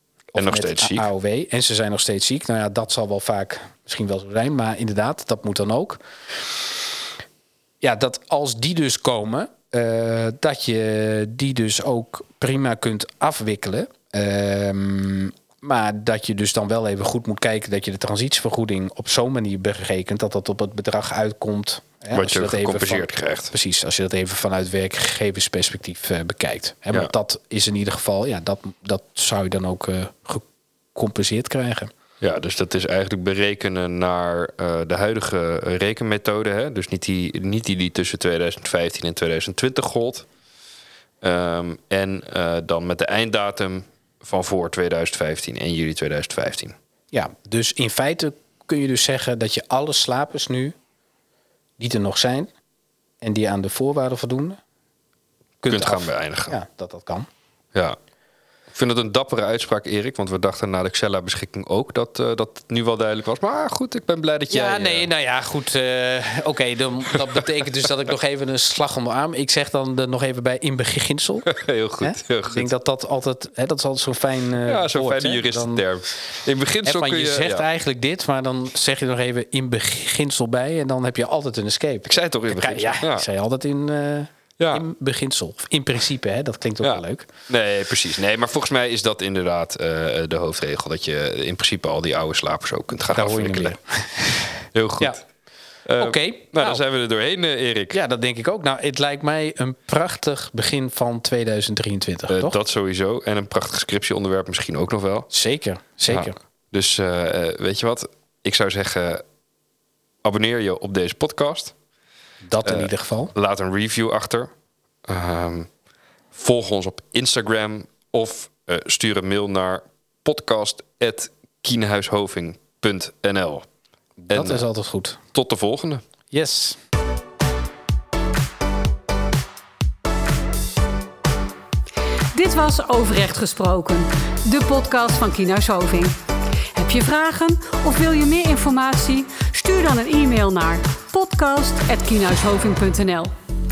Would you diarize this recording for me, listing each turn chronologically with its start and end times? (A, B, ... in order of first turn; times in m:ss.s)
0:00.3-0:06.0 A
0:00.4-0:01.1 B
0:07.8-0:31.9 A
0:22.1-0:23.5 B
0:32.2-0:40.3 B
0:41.2-0:46.8 B
0:47.1-0:50.7 A
0:51.8-0:52.5 A
0:53.2-0:54.6 A
0:55.6-0:57.3 A
0:55.7-0:56.6 B
0:58.7-1:05.1 B
1:04.5-1:11.5 A
1:11.4-1:12.7 B
1:12.0-1:15.8 A
1:14.6-1:17.6 B
1:16.8-1:27.3 A
1:22.1-1:23.2 B
1:24.6-1:24.8 B
1:26.8-1:33.8 B
1:33.1-1:35.2 A
1:34.7-1:35.2 B
1:35.8-1:38.0 B
1:36.0-1:36.8 A
1:37.9-1:42.6 A
1:42.3-1:45.3 B
1:45.3-1:46.4 A
1:46.1-1:49.2 B
1:50.2-1:51.7 B
1:52.4-1:53.3 A
1:52.6-1:54.5 B
1:55.1-1:55.7 B
1:56.3-2:03.6 B
2:04.2-2:05.2 A
2:04.3-2:04.6 B
2:05.3-2:06.0 B
2:06.3-2:06.8 A
2:12.3-2:16.1 C
2:16.7-2:23.3 C